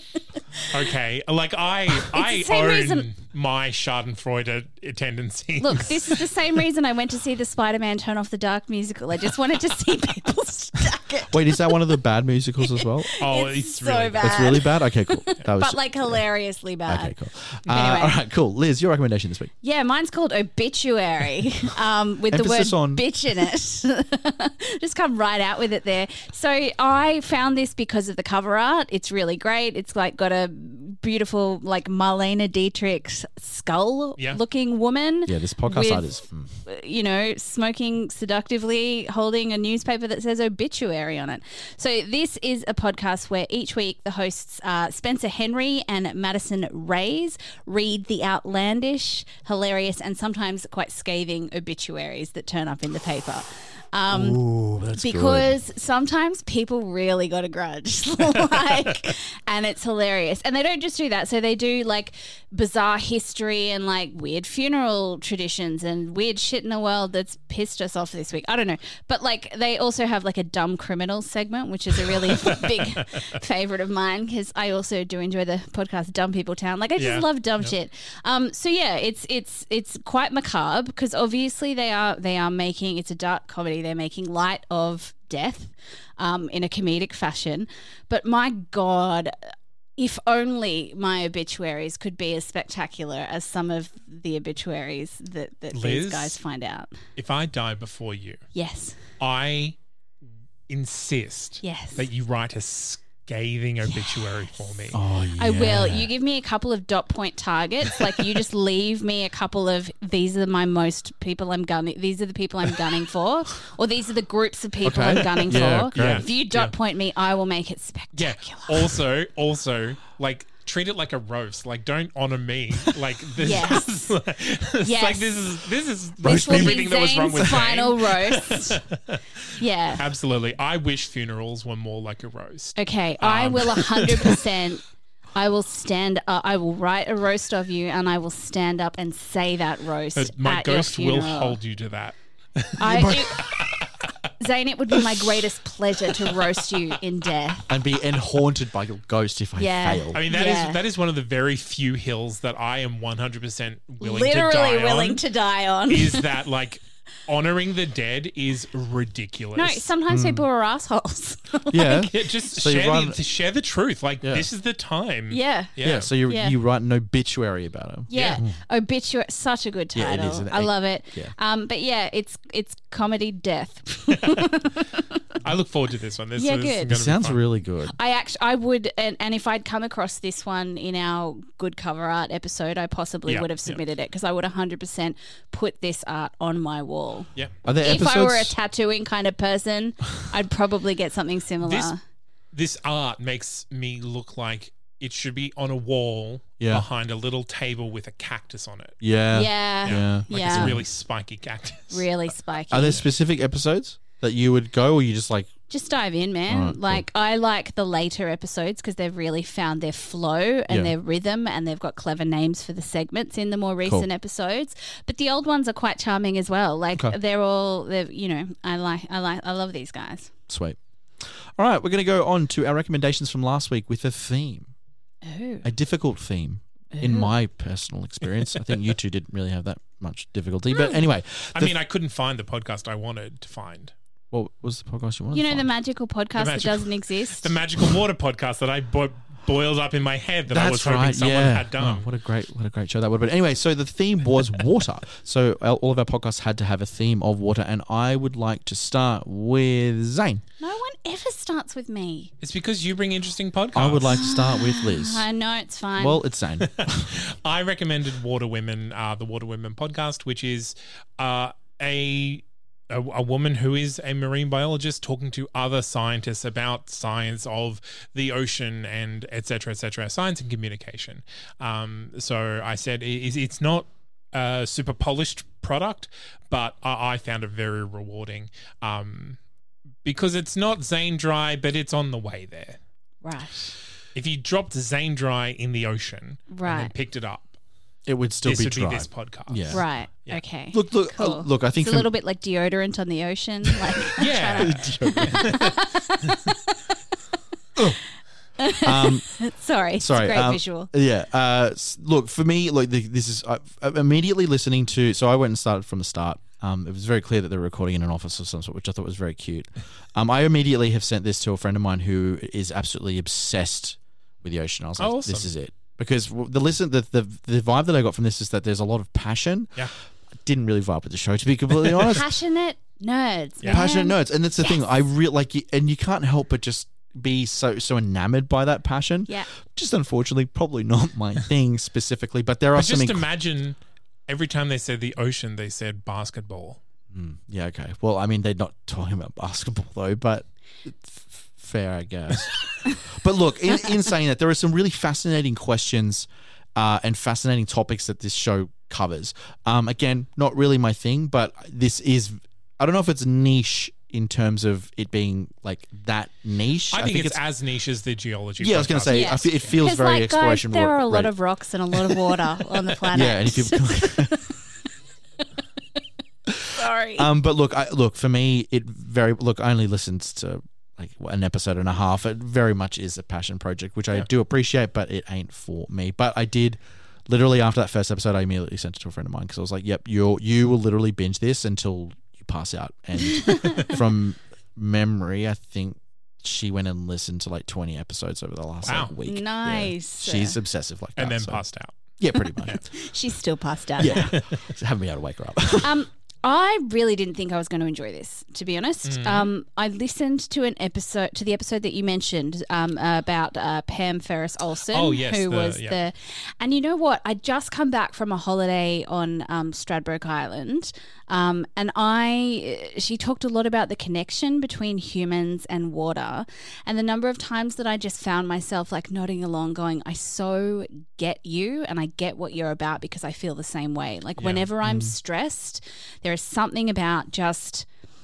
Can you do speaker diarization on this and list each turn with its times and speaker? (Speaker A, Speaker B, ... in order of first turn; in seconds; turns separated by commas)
Speaker A: 0.7-6.2, Speaker B: 2.0-3.1, Speaker B: 5.6-11.9, Speaker C: 11.3-13.2, Speaker B: 12.6-17.1, Speaker A: 13.2-14.5, Speaker C: 14.2-16.2, Speaker C: 16.9-19.5, Speaker B: 17.7-18.2, Speaker B: 19.6-36.1, Speaker C: 22.3-23.1, Speaker C: 35.3-36.5, Speaker B: 36.6-54.4, Speaker C: 54.1-55.6, Speaker B: 54.9-89.3, Speaker A: 72.4-72.7, Speaker A: 77.0-77.7, Speaker B: 90.0-96.9, Speaker A: 95.7-96.4, Speaker A: 97.2-98.4, Speaker B: 98.5-99.0, Speaker A: 99.2-99.8, Speaker A: 100.7-105.0, Speaker B: 101.6-102.1, Speaker C: 104.9-106.1, Speaker B: 105.4-119.0, Speaker C: 114.8-116.2, Speaker A: 115.9-116.7, Speaker A: 118.1-134.4, Speaker B: 123.4-123.9, Speaker B: 124.8-125.4, Speaker B: 126.2-128.8, Speaker C: 126.2-127.6, Speaker B: 129.6-130.0, Speaker B: 132.8-134.8, Speaker B: 135.3-141.6, Speaker A: 140.2-144.1, Speaker B: 142.8-143.5, Speaker C: 142.9-143.2, Speaker B: 144.4-147.7, Speaker C: 147.7-150.2, Speaker B: 149.6-150.8, Speaker A: 150.1-155.2, Speaker B: 154.0-156.3, Speaker A: 155.9-159.9, Speaker B: 159.6-162.1, Speaker C: 160.1-160.4, Speaker C: 161.7-163.2, Speaker A: 162.1-166.1, Speaker C: 164.2-164.5, Speaker B: 165.3-166.6, Speaker C: 165.8-168.6, Speaker B: 168.1-175.0, Speaker A: 168.1-168.4, Speaker C: 169.9-171.3, Speaker A: 175.4-177.4, Speaker B: 176.3-176.9, Speaker C: 176.9-177.9, Speaker B: 177.9-187.3, Speaker A: 183.3-183.8, Speaker C: 187.7-188.5, Speaker B: 187.8-192.0, Speaker A: 191.6-191.9, Speaker A: 192.5-198.9, Speaker C: 196.6-196.8, Speaker C: 199.0-200.8, Speaker B: 199.3-200.8, Speaker A: 199.8-202.1, Speaker B: 201.9-203.0, Speaker C: 202.7-205.5, Speaker B: 205.7-220.3, Speaker C: 206.5-207.1, Speaker C: 210.7-210.9, Speaker C: 220.5-224.7, Speaker B: 225.2-225.7, Speaker C: 225.6-231.7, Speaker B: 226.9-227.3, Speaker A: 231.6-233.9, Speaker C: 234.3-235.7, Speaker B: 235.3-237.6, Speaker A: 236.3-242.1, Speaker C: 240.5-250.4, Speaker B: 250.6-252.3, Speaker A: 252.4-254.2, Speaker C: 253.7-255.3, Speaker B: 254.1-256.2, Speaker C: 256.0-257.2, Speaker A: 256.6-279.4, Speaker A: 280.1-282.8, Speaker B: 283.2-283.8, Speaker A: 284.1-287.5, Speaker B: 286.5-286.9, Speaker C: 288.1-289.8, Speaker A: 288.4-290.4, Speaker B: 289.7-296.8, Speaker C: 290.7-292.1, Speaker A: 294.2-295.7, Speaker C: 294.6-295.6, Speaker B: 298.6-300.9, Speaker C: 298.8-299.3, Speaker C: 300.0-319.9, Speaker A: 315.0-315.5, Speaker C: 320.4-322.3, Speaker B: 322.1-324.9, Speaker C: 323.7-333.3, Speaker A: 332.7-333.8, Speaker A: 334.3-336.8, Speaker C: 337.1-357.4, Speaker A: 356.9-359.8, Speaker C: 358.6-361.3, Speaker B: 359.1-364.6, Speaker C: 363.1-364.4, Speaker C: 366.5-391.6, Speaker B: 366.7-367.3, Speaker B: 383.3-383.9, Speaker A: 388.8-389.1, Speaker B: 389.2-390.6, Speaker A: 391.2-392.0, Speaker C: 392.2-392.8, Speaker B: 392.9-394.3, Speaker C: 394.0-396.0, Speaker A: 394.1-394.6, Speaker B: 395.8-427.9, Speaker A: 399.1-399.5, Speaker A: 404.9-406.0, Speaker A: 424.4-424.7, Speaker C: 424.8-425.1